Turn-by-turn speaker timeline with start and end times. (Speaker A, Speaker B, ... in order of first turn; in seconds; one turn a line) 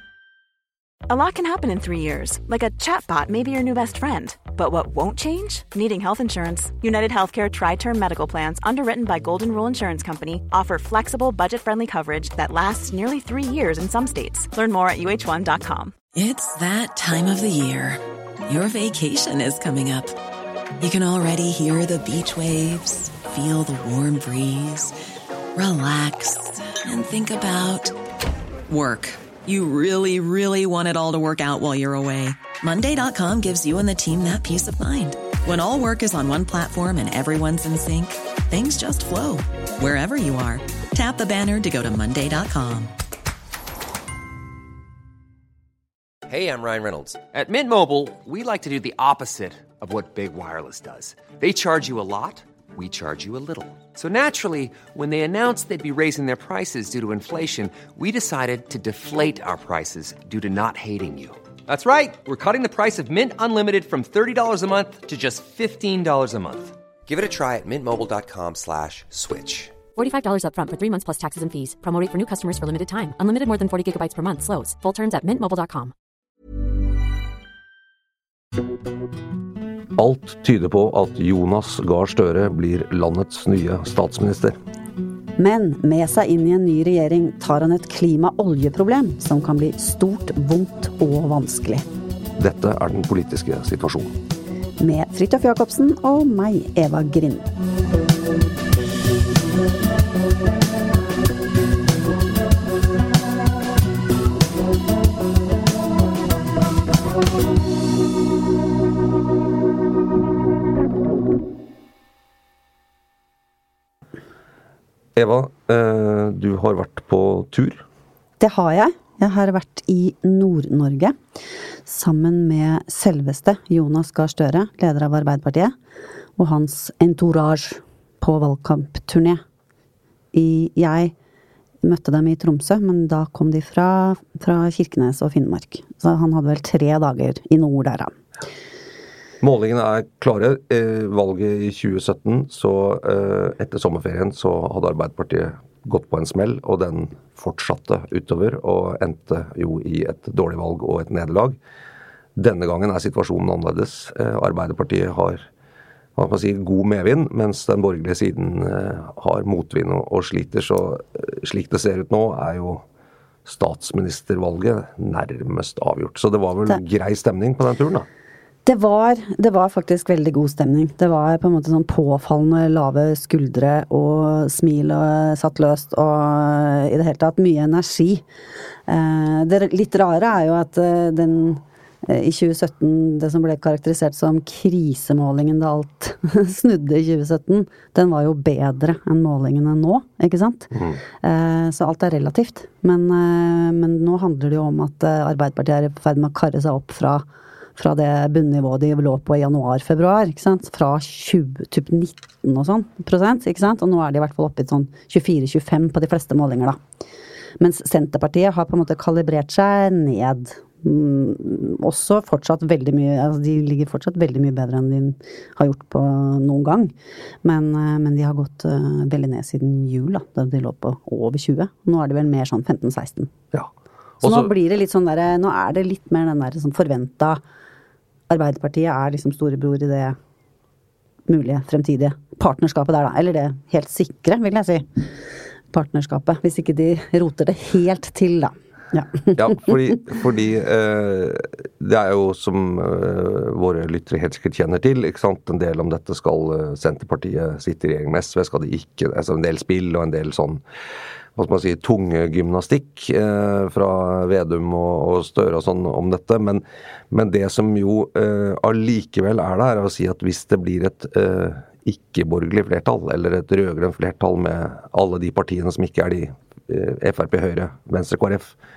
Speaker A: 1.1-15.9
Speaker B: 16.1-20.2
Speaker B: 20.8-24.9
Speaker B: 25.5-27.9
Speaker B: 28.7-42.9
Speaker C: 46.3-69.7
Speaker D: 70.0-75.9
Speaker E: 80.0-84.5
Speaker F: 85.4-91.8
Speaker E: 92.4-94.1
Speaker F: 94.8-97.5
Speaker E: 115.2-117.8
Speaker F: 118.4-121.1
Speaker F: 121.9-125.7
Speaker F: 126.4-129.4
Speaker F: 130.3-131.1
Speaker F: 131.8-138.1
Speaker E: 139.4-151.6
Speaker E: 152.3-155.4
Speaker E: 156.2-162.8
Speaker E: 163.4-168.1
Speaker F: 168.7-178.2
Speaker F: 178.9-197.2
Speaker E: 190.7-191.0
Speaker F: 197.8-206.8
Speaker F: 207.6-223.3
Speaker E: 223.5-224.5
Speaker F: 224.2-227.4
Speaker F: 228.3-230.2
Speaker F: 231.3-235.1
Speaker F: 235.7-239.7
Speaker E: 239.3-250.6
Speaker E: 251.3-268.6